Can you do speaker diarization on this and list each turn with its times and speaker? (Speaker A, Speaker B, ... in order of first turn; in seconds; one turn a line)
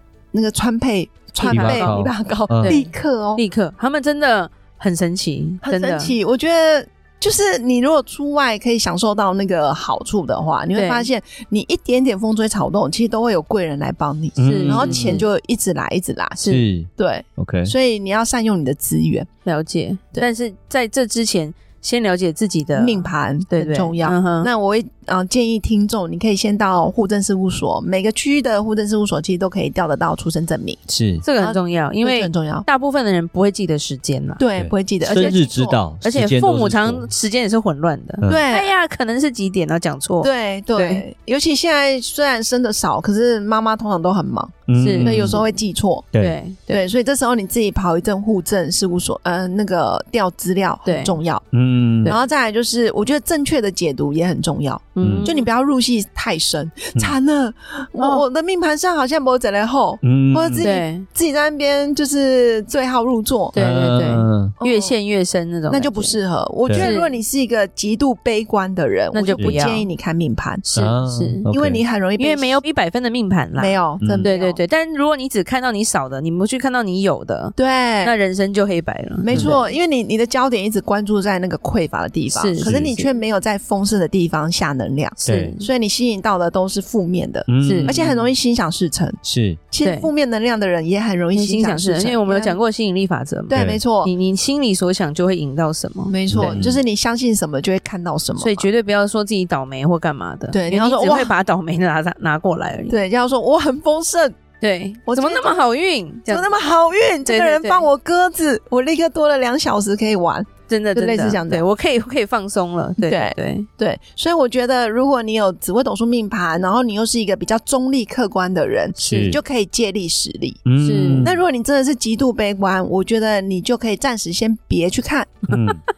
Speaker A: 0.3-3.4
Speaker B: 1.4-1.9
Speaker C: 1.5-2.8
Speaker B: 2.6-6.2
Speaker A: 5.6-16.4
Speaker B: 10.7-11.1
Speaker C: 14.4-15.2
Speaker B: 14.4-15.2
Speaker B: 16.4-16.6
Speaker C: 16.4-17.7
Speaker A: 17.0-19.3
Speaker B: 19.4-24.5
Speaker A: 22.7-30.8
Speaker C: 30.9-31.2
Speaker B: 31.2-34.4
Speaker A: 31.4-32.7
Speaker A: 34.4-35.8
Speaker C: 34.6-37.1
Speaker B: 35.0-35.4
Speaker B: 36.0-41.0
Speaker A: 38.3-38.7
Speaker A: 40.2-46.1
Speaker C: 44.7-45.4
Speaker B: 44.8-45.4
Speaker C: 46.1-46.4
Speaker B: 46.2-46.8
Speaker A: 46.7-51.5
Speaker B: 50.9-51.2
Speaker C: 51.5-52.1
Speaker A: 52.0-63.5
Speaker B: 55.0-55.5
Speaker C: 55.0-55.3
Speaker B: 58.0-58.2
Speaker C: 60.0-60.7
Speaker B: 60.6-61.0
Speaker B: 63.5-66.2
Speaker C: 63.5-64.5
Speaker A: 64.6-65.0
Speaker A: 65.7-70.6
Speaker C: 66.7-66.9
Speaker B: 66.8-67.2
Speaker B: 69.1-69.9
Speaker B: 70.6-71.5
Speaker C: 70.7-71.8
Speaker A: 71.5-72.6
Speaker B: 72.2-79.7
Speaker A: 73.5-74.6
Speaker C: 74.0-74.3
Speaker A: 77.5-78.1
Speaker A: 79.2-89.2
Speaker C: 79.3-79.6
Speaker B: 82.3-83.1
Speaker C: 82.6-82.9
Speaker B: 85.2-85.7
Speaker C: 85.2-85.5
Speaker C: 87.5-88.3
Speaker B: 87.6-87.9
Speaker C: 89.2-89.6
Speaker A: 89.7-92.6
Speaker B: 89.8-90.1
Speaker B: 91.3-96.6
Speaker A: 93.5-94.1
Speaker C: 93.5-93.8
Speaker A: 96.1-98.7
Speaker C: 96.3-96.8
Speaker B: 98.4-103.0
Speaker A: 100.5-101.3
Speaker A: 102.9-104.3
Speaker B: 104.6-106.5
Speaker A: 105.0-105.6
Speaker A: 106.3-111.6
Speaker B: 107.2-107.9
Speaker B: 110.7-113.7
Speaker A: 113.0-120.6
Speaker C: 119.0-119.4
Speaker B: 119.0-119.3
Speaker C: 120.7-121.4
Speaker B: 120.8-121.3
Speaker A: 121.2-125.6
Speaker C: 125.5-125.8